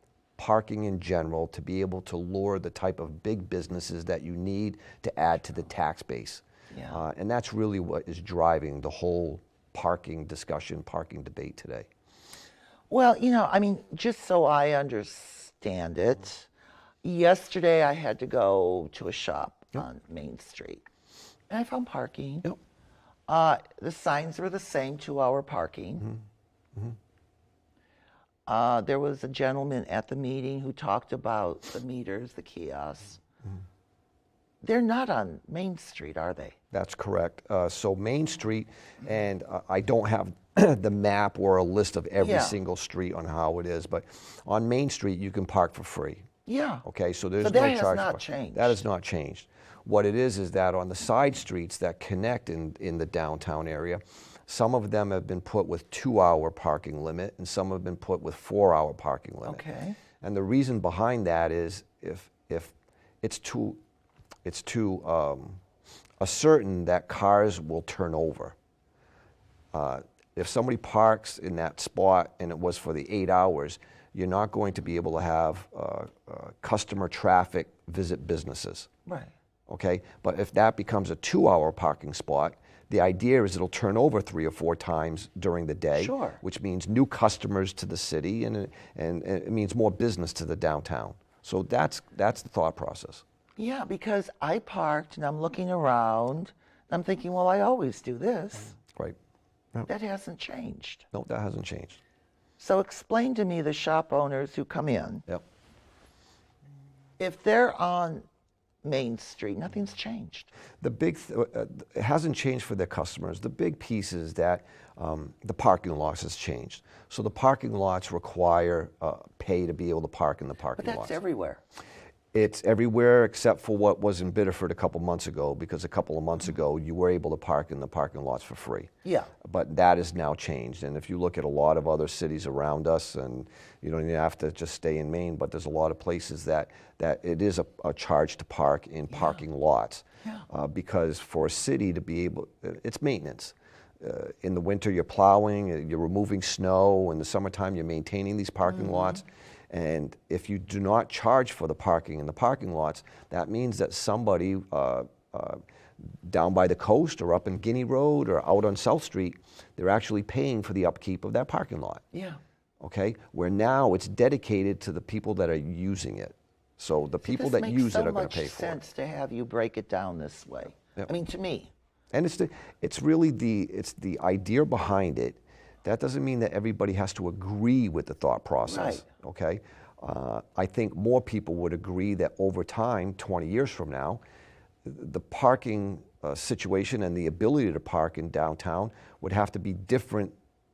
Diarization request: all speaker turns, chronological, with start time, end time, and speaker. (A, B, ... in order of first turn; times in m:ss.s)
0:00.4-0:11.9 A
0:06.7-0:07.0 B
0:12.9-0:16.5 B
0:17.0-0:20.8 B
0:21.5-0:22.5 B
0:23.3-0:26.1 B
0:28.5-0:33.2 B
0:34.6-0:36.6 B
0:36.7-0:46.3 A
0:42.2-0:42.6 B
0:46.5-0:46.8 B
0:46.8-0:59.6 A
0:47.4-0:48.8 B
0:59.4-1:00.0 B
1:00.2-1:03.8 A
1:04.4-1:05.6 A
1:06.2-1:08.6 A
1:09.7-1:18.9 A
1:19.1-1:19.3 B
1:19.7-1:33.2 A
1:26.0-1:26.4 B
1:33.6-1:38.8 B
1:38.9-1:39.2 A
1:39.9-1:41.1 B
1:41.1-1:42.0 A
1:42.6-1:45.2 B
1:47.2-1:48.3 B
1:48.8-1:50.5 B
1:50.8-2:01.2 A
2:00.8-2:01.6 B
2:02.3-2:08.9 A
2:09.0-2:09.3 B
2:09.4-2:42.0 A
2:42.1-2:42.4 B
2:42.8-2:48.8 A
2:47.2-2:51.7 B
2:52.1-3:04.2 A
2:58.7-2:59.0 B
3:04.8-3:10.3 A